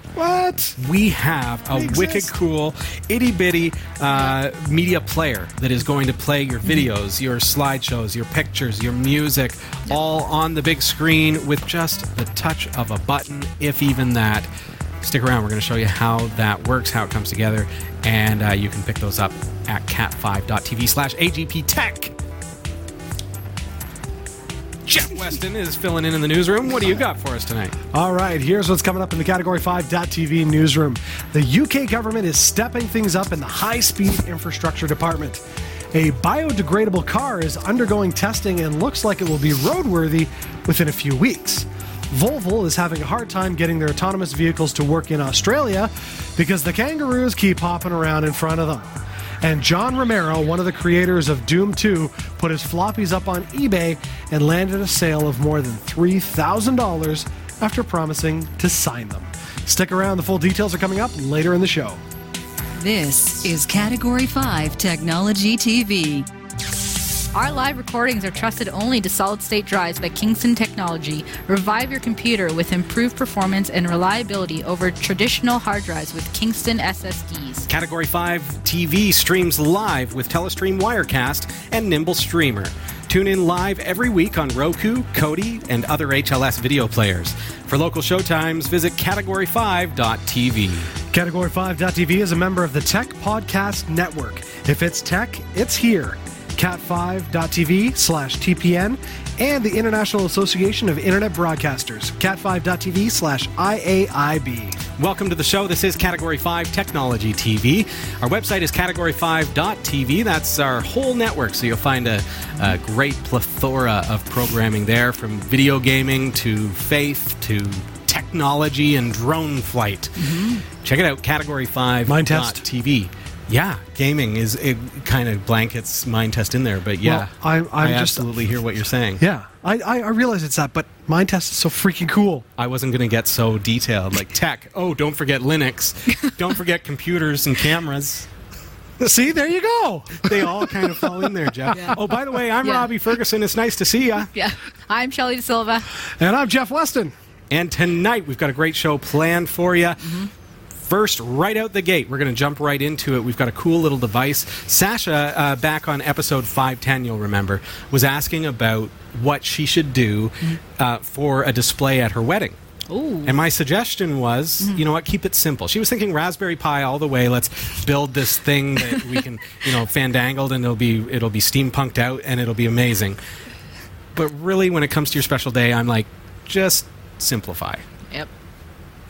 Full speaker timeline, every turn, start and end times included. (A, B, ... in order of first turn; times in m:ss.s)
0:00.1-0:00.8 A
0:00.8-0:14.5 B
0:01.7-0:02.3 A
0:15.0-0:22.1 B
0:24.8-0:27.8 B
0:27.9-0:35.4 A
0:35.9-1:02.0 A
1:02.8-1:06.3 C
1:03.0-1:03.5 D
1:07.3-1:17.7 D
1:17.7-1:30.9 B
1:31.1-1:44.8 A
1:45.0-2:09.2 B
2:00.2-2:00.6 D
2:02.1-2:02.6 A
2:07.0-2:08.3 A
2:09.2-2:12.4 A
2:12.6-2:18.3 B
2:19.0-2:21.9 A
2:20.2-2:24.3 B
2:21.7-2:22.0 D
2:22.6-2:22.9 D
2:24.3-2:25.9 D
2:26.2-2:27.1 A
2:27.5-2:30.2 B
2:30.8-2:42.6 B
2:42.9-2:43.3 D
2:43.2-2:53.2 B
2:54.1-2:57.8 B